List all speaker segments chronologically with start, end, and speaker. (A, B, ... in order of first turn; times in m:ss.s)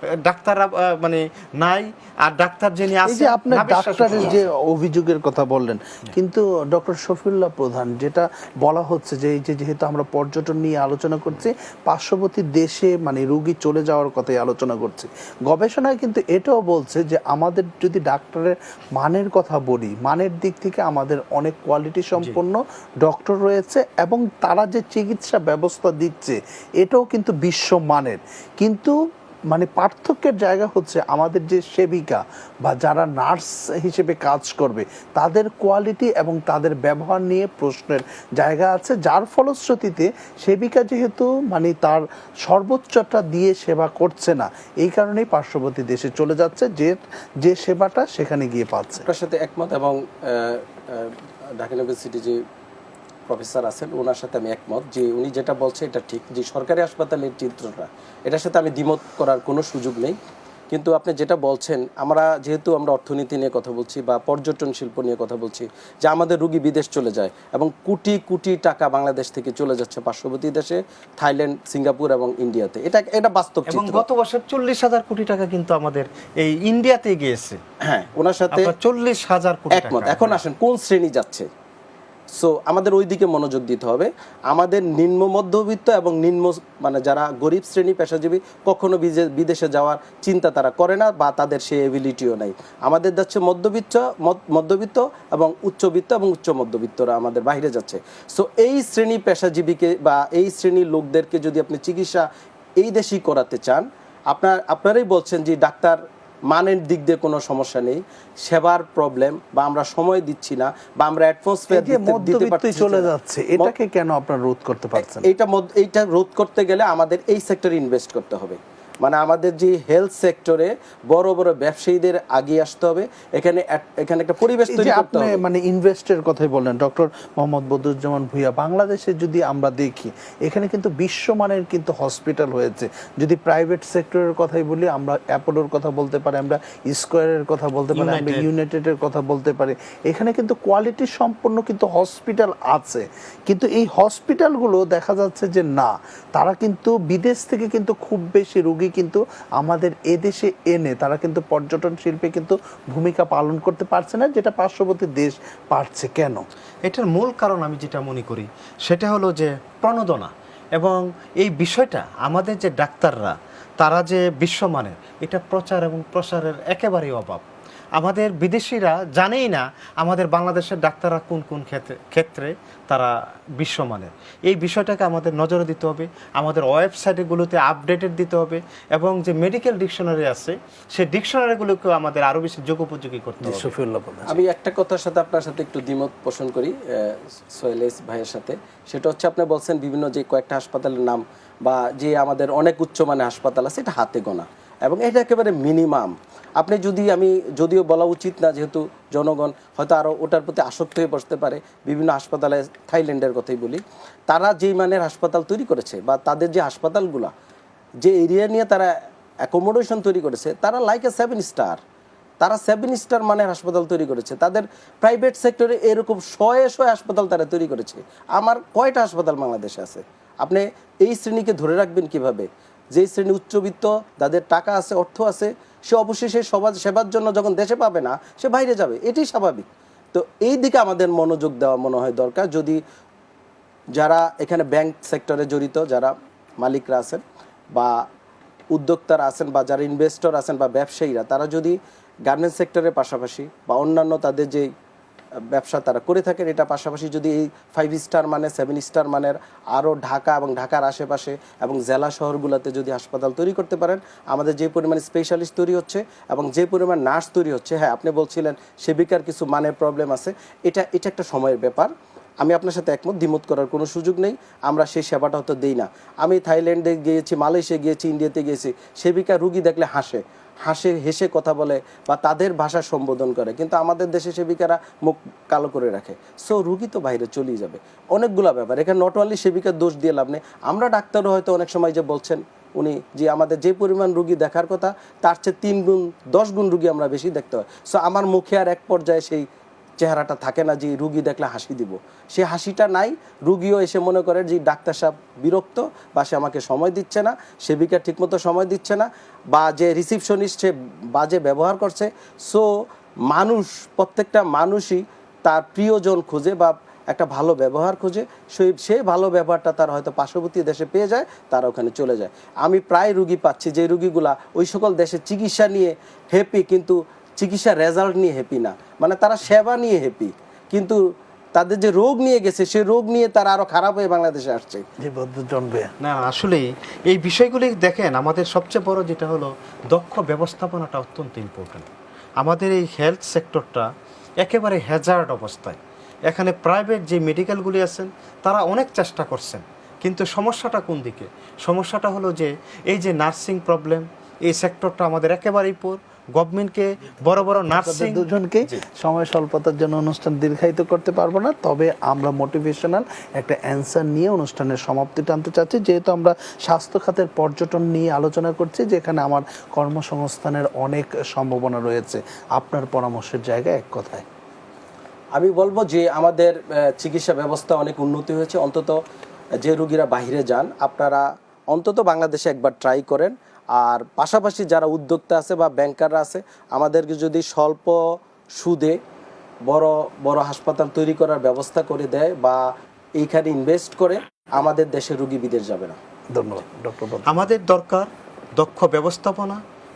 0:00.2-0:04.4 A
0:03.0-0:28.9 B
0:29.5-0:49.1 B
0:49.0-0:52.4 C
0:53.3-1:00.2 C
1:00.7-1:14.0 C
1:13.7-1:17.6 A
1:17.8-1:18.7 C
1:18.5-1:20.4 A
1:19.7-1:21.5 C
1:22.4-1:42.3 C
1:42.8-1:46.0 C
1:46.5-1:53.7 C
1:51.7-1:55.3 B
1:55.0-2:05.4 C
2:04.7-2:36.4 B
2:18.0-2:18.5 A
2:36.8-2:47.4 A
2:48.0-3:03.7 A
3:03.4-3:04.4 B
3:04.3-3:27.3 C
3:28.0-3:28.9 C
3:29.4-3:31.8 C
3:32.4-3:52.8 C
3:54.0-3:57.2 C
3:57.7-3:58.0 C
3:58.7-4:04.7 C
4:05.5-4:21.9 C
4:22.4-4:49.4 C
4:50.0-5:02.7 C
5:03.3-5:21.0 C
5:21.6-5:24.8 C
5:25.0-5:25.9 B
5:26.0-5:31.9 A
5:32.4-5:33.9 A
5:34.4-5:35.8 A
5:36.3-5:48.8 A
5:47.7-6:04.2 B
6:05.4-6:09.0 C
6:09.6-6:18.0 C
6:18.6-6:19.0 C
6:19.7-6:22.6 C
6:23.2-6:26.0 C
6:26.4-6:27.5 B
6:27.3-6:29.6 A